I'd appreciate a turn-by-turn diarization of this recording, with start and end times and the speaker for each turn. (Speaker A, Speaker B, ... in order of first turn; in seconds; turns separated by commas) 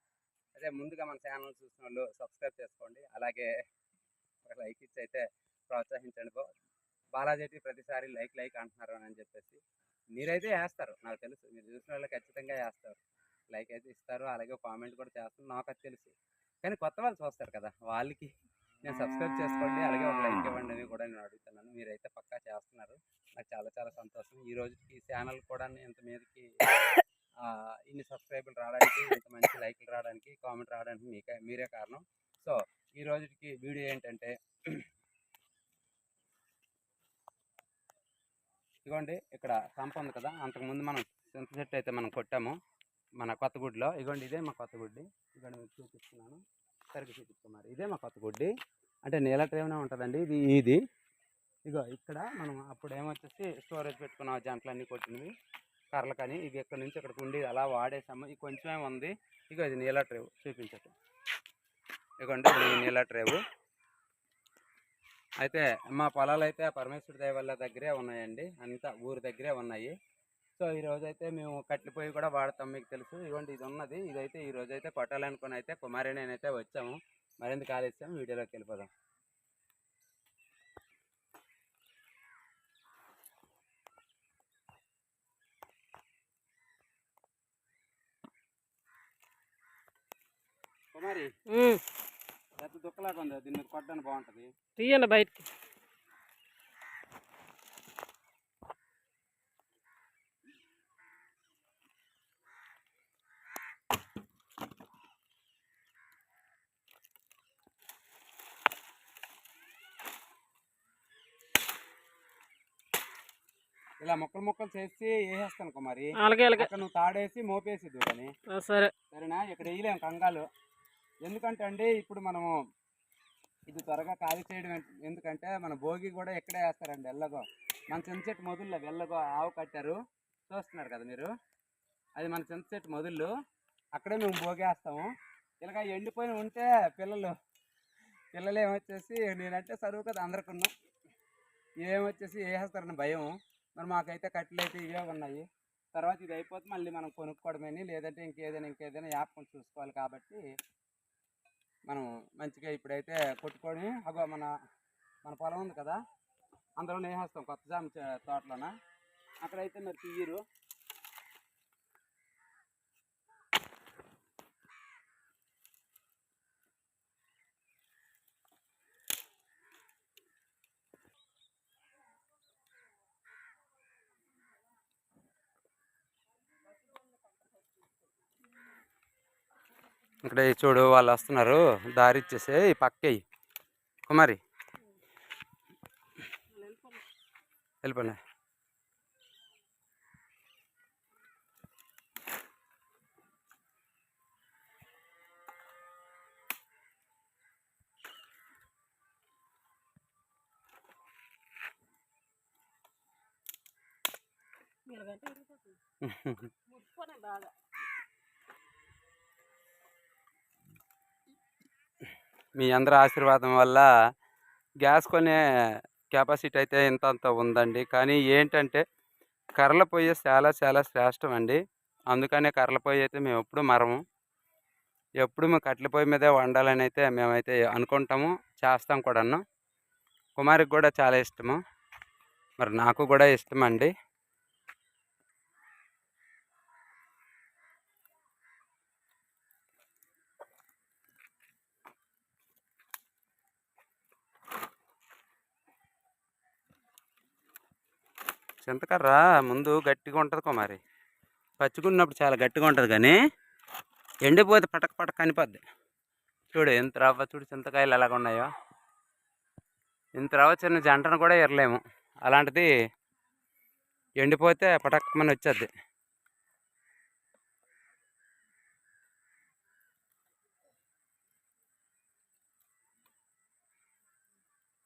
Speaker A: 0.6-3.5, Speaker A: 4.5-6.5, Speaker A: 7.2-9.6, Speaker A: 10.2-13.0, Speaker A: 13.5-18.3, Speaker A: 18.8-26.6, Speaker A: 27.4-34.8, Speaker A: 38.9-42.6, Speaker A: 43.2-46.4, Speaker A: 46.9-48.5, Speaker A: 49.1-50.8, Speaker A: 51.7-55.3, Speaker A: 55.9-60.9, Speaker A: 62.2-63.4, Speaker A: 65.4-69.9, Speaker A: 70.6-78.9, Speaker A: 90.9-91.3, Speaker B: 91.5-91.8, Speaker A: 92.6-94.5, Speaker B: 94.8-95.5, Speaker A: 114.0-118.3, Speaker B: 116.2-116.7, Speaker B: 118.5-118.9, Speaker A: 119.1-120.5, Speaker A: 121.2-122.5, Speaker A: 123.7-130.0, Speaker A: 130.5-131.3, Speaker A: 132.2-133.3, Speaker A: 133.9-135.1, Speaker A: 135.6-137.3, Speaker A: 138.3-140.7, Speaker A: 141.8-150.4, Speaker A: 151.9-154.5, Speaker A: 155.2-156.0, Speaker A: 156.8-158.7, Speaker A: 159.4-160.4, Speaker A: 180.2-183.2, Speaker A: 184.1-184.4, Speaker B: 186.5-187.0, Speaker A: 187.8-188.2, Speaker B: 204.9-205.8, Speaker A: 206.0-206.5, Speaker B: 206.7-207.5, Speaker A: 212.6-213.9, Speaker A: 214.8-215.4, Speaker A: 216.1-218.8, Speaker A: 219.6-221.6, Speaker A: 222.1-224.0, Speaker A: 225.2-229.4, Speaker A: 230.4-231.6, Speaker A: 232.6-233.9, Speaker A: 248.6-250.8, Speaker A: 251.6-253.2, Speaker A: 254.2-255.6, Speaker A: 256.5-258.5, Speaker A: 260.2-262.7, Speaker A: 264.2-265.7